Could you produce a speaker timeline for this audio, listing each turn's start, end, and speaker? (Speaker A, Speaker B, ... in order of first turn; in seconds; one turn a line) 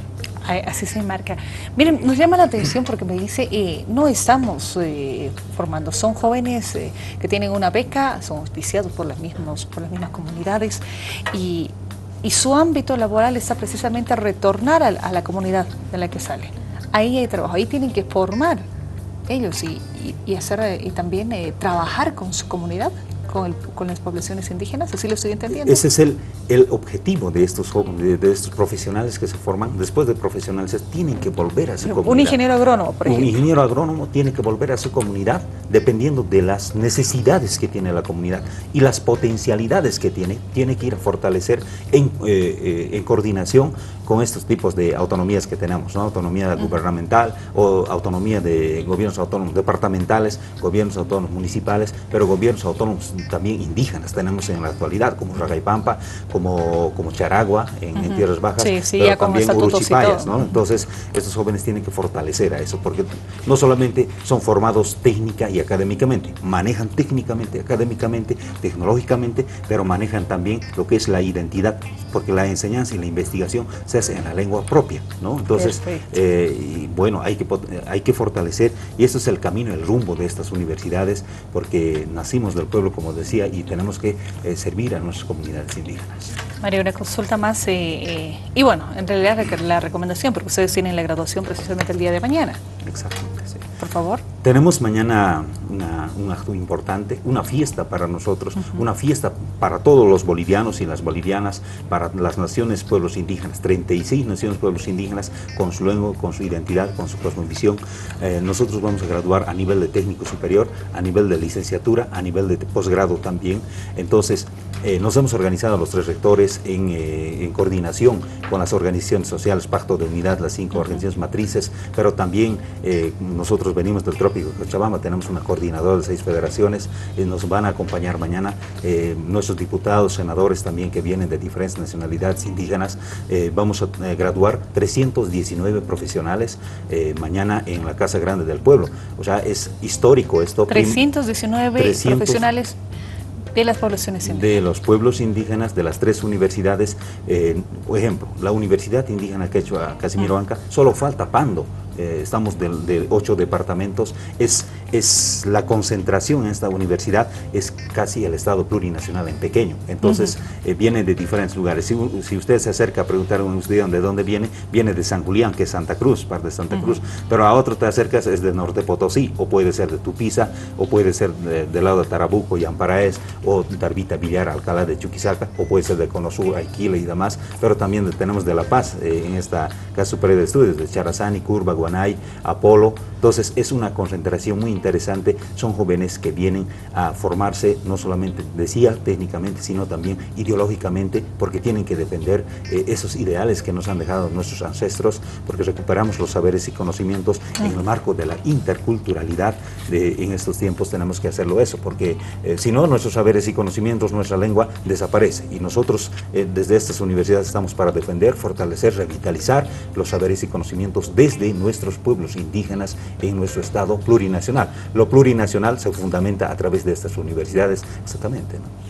Speaker A: 0.4-18.6
Speaker A: 19.3-25.8
Speaker B: 25.5-32.4
Speaker A: 31.8-33.3
Speaker B: 33.0-86.3
Speaker A: 58.0-60.5
Speaker A: 75.5-76.1
Speaker A: 86.6-92.6
Speaker B: 92.8-93.7
Speaker A: 93.8-94.2
Speaker B: 94.4-141.0
Speaker A: 140.7-142.8
Speaker B: 141.8-142.5
Speaker A: 143.5-144.5
Speaker B: 144.2-218.7